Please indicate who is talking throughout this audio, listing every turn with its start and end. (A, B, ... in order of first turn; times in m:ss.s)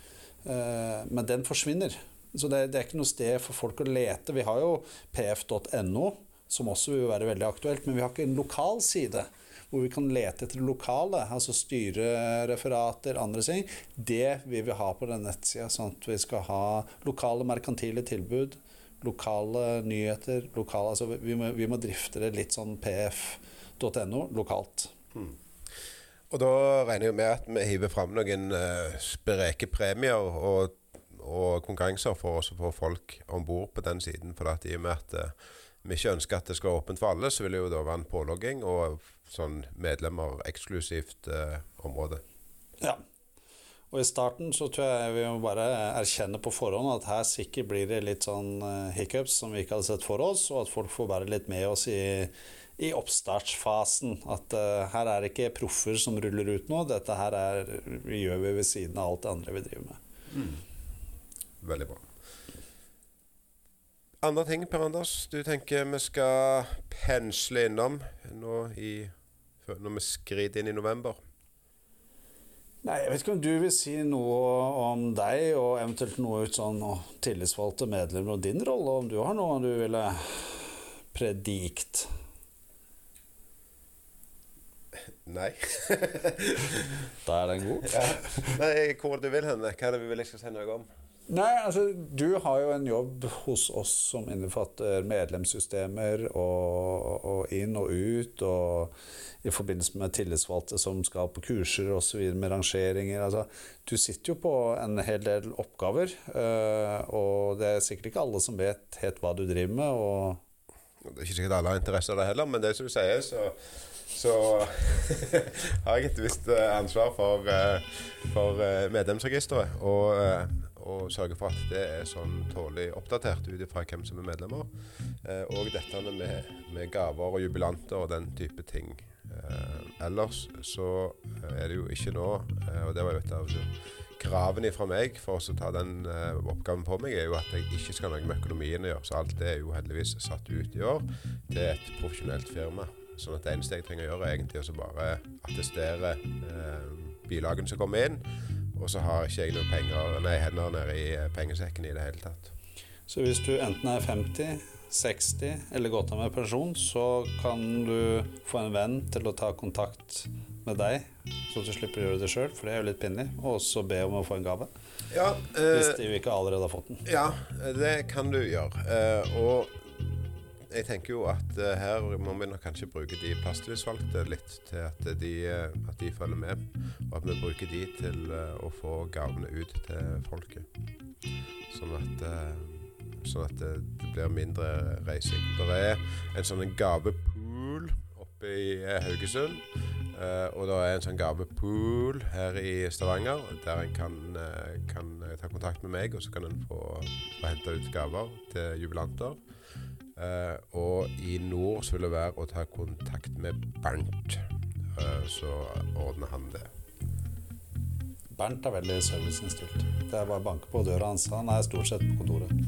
0:00.4-0:24.9 A
0:26.3-0:42.2 B
0:43.9-1:00.0 A
1:00.3-1:00.6 B
1:01.6-1:02.1 B
1:04.2-1:09.1 B
1:09.6-1:11.2 B
1:12.8-1:22.1 A
1:25.3-1:26.8 B
1:27.2-1:28.4 A
1:27.8-1:30.9 B
1:31.3-1:50.4 A
1:51.0-2:04.7 B
2:05.2-2:28.2 B
2:28.8-2:32.5 B
2:33.1-2:44.7 A
2:45.1-2:46.0 B
2:45.7-2:47.1 A
2:47.0-3:00.7 B
3:01.7-3:19.4 B
3:20.2-3:24.4 B
3:24.9-3:26.7 B
3:28.4-3:32.5 A